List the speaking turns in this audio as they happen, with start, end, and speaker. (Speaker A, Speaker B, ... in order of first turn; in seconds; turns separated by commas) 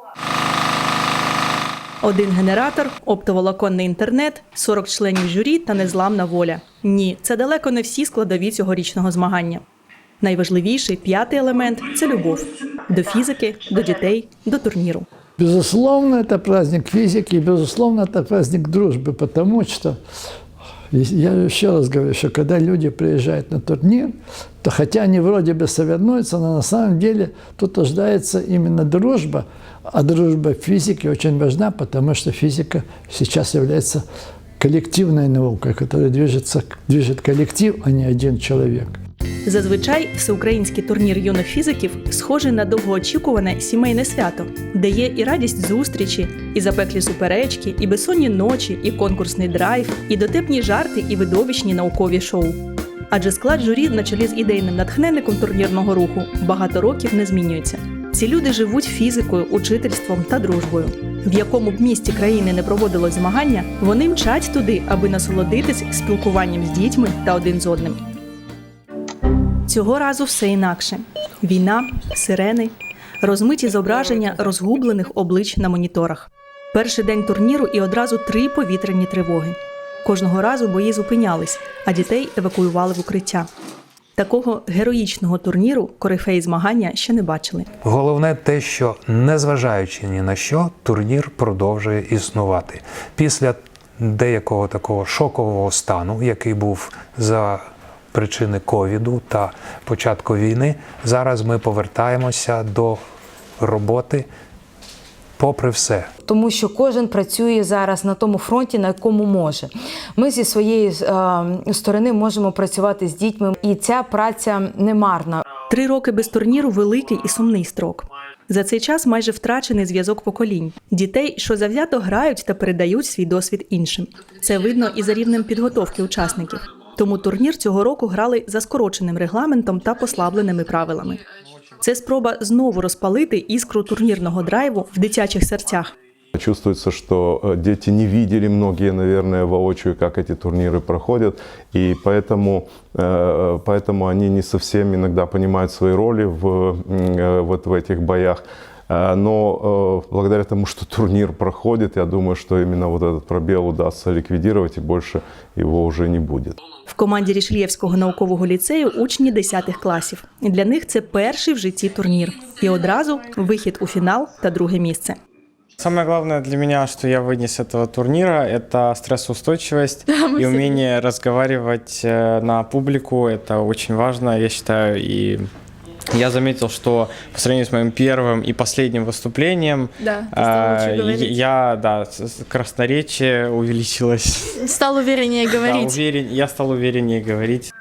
Speaker A: 2.0-9.6, Speaker A: 10.2-15.0, Speaker B: 15.4-20.0, Speaker B: 20.9-34.0, Speaker B: 34.6-39.0, Speaker A: 39.4-52.6, Speaker A: 53.1-68.0, Speaker A: 69.6-83.5, Speaker A: 84.2-87.7, Speaker C: 87.8-103.0, Speaker C: 103.6-104.3, Speaker C: 105.4-106.1, Speaker D: 106.2-115.4, Speaker A: 115.7-131.2, Speaker A: 131.8-135.9, Speaker E: 136.3-156.6, Speaker A: 156.9-165.2, Speaker F: 165.8-175.5, Speaker G: 170.1-170.8, Speaker F: 176.1-184.6, Speaker G: 180.0-181.3, Speaker G: 184.6-186.0, Speaker F: 185.4-187.7